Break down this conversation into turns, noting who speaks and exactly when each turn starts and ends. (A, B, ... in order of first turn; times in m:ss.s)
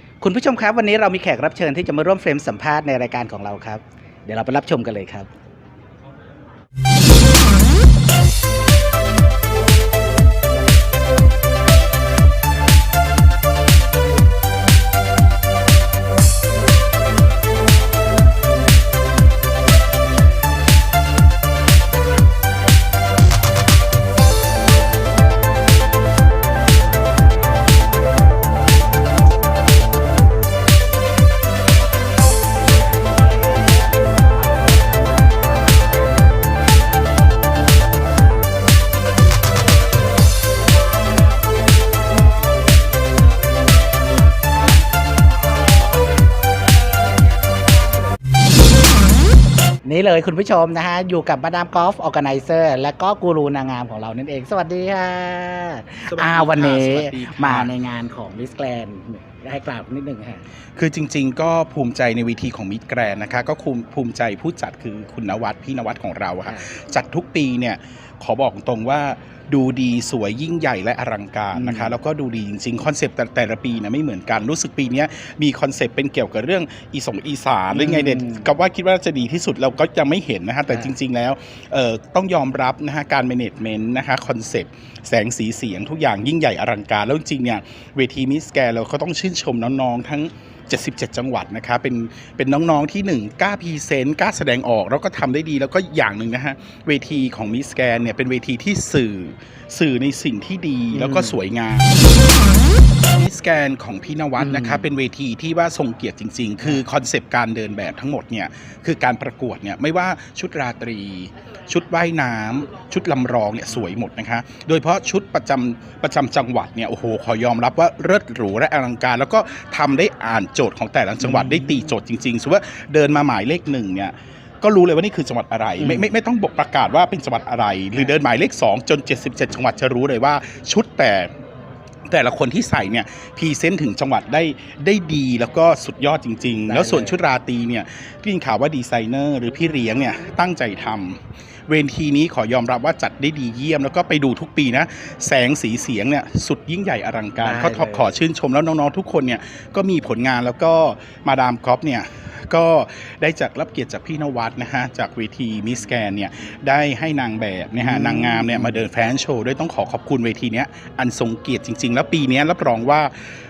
0:00.2-0:05.3 A
0:49.8-1:00.4 A
0:56.1-0:57.7 B
1:00.8-1:41.9 B
1:06.4-1:06.7 A
1:11.5-1:12.0 A
1:17.7-1:18.5 A
1:40.9-1:41.4 A
1:43.1-2:11.3 B
1:44.4-1:44.9 A
2:01.2-2:01.7 A
2:05.8-2:06.1 A
2:12.1-2:43.1 B
2:16.7-2:17.2 A
2:27.4-2:28.2 A
2:37.8-2:38.8 A